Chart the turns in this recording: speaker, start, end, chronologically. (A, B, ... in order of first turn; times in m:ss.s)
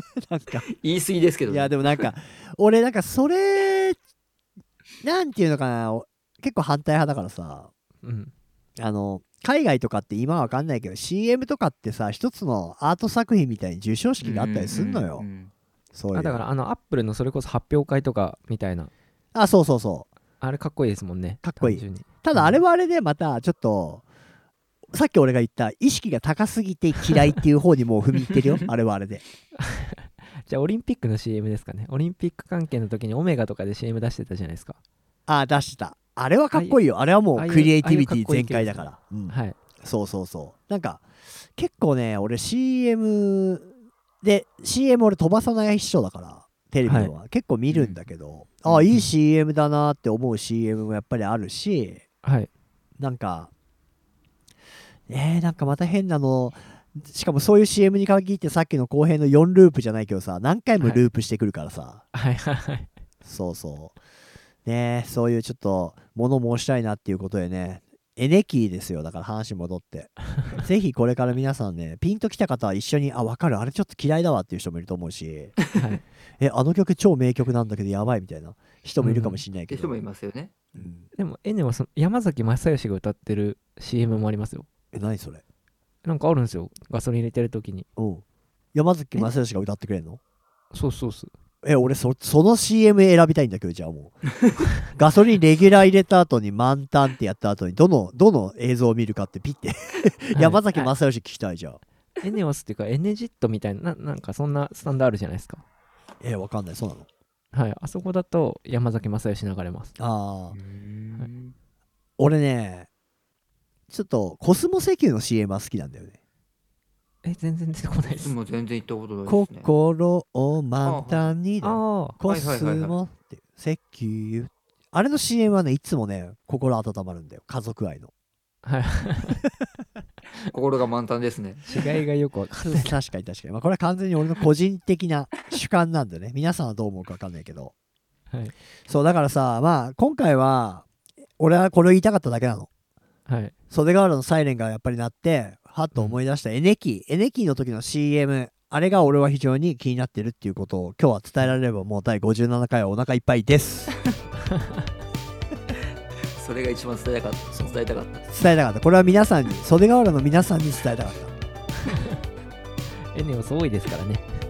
0:00.2-0:00.7 A
0:00.8-0:02.1 B
0:01.5-0:04.0 A
0:05.0-0:07.7 A
0:08.0-0:08.3 C
0:08.8-0:15.2 A
0:14.2-0:15.5 B
0:15.9-0:16.4 A
0:16.1-0:18.9 C
0:19.3-0:20.1 A
0:20.4-0:22.6 C
0:21.4-0:24.0 A
0:24.9-0:29.2 A
0:29.6-0:34.8 C
0:35.3-0:41.0 A
0:36.5-0:36.8 C
0:37.3-0:39.6 C
0:41.6-0:43.7 A
0:44.2-0:52.0 A
0:46.8-0:47.1 C
0:47.7-0:48.0 B
0:48.6-0:49.1 B
0:52.2-0:52.5 C
0:53.0-0:53.5 A
0:55.1-1:02.0 A
1:02.1-1:02.9 C
1:03.2-1:04.0 A
1:04.6-1:15.6 A
1:15.7-1:16.0 C
1:16.4-1:19.9 A
1:19.0-1:19.4 C
1:19.7-1:20.6 B
1:20.7-1:21.1 A
1:21.1-1:24.7 C
1:24.9-1:25.4 A
1:26.0-1:27.9 C
1:28.0-1:30.2 A
1:30.7-1:31.3 C
1:31.6-1:34.2 A
1:34.8-1:41.8 A
1:40.3-1:40.9 C
1:42.2-1:45.6 C
1:46.2-1:47.1 A
1:47.5-1:49.9 C
1:50.0-1:50.6 A
1:50.5-1:51.5 B
1:52.2-1:52.9 A
1:53.9-1:56.2 A
1:57.2-1:58.3 C
1:58.2-1:59.7 B
1:59.2-2:08.1 A
2:00.8-2:01.3 B
2:01.6-2:02.2 C
2:02.2-2:03.0 B
2:08.6-2:09.4 C
2:10.5-2:11.7 B
2:11.6-2:13.0 C
2:12.5-2:17.7 A
2:18.9-2:20.9 A
2:21.4-2:22.7 A
2:23.2-2:23.5 C
2:23.7-2:33.9 A
2:36.4-2:38.2 B
2:38.3-2:41.3 A
2:41.9-2:42.2 C
2:43.1-2:44.2 C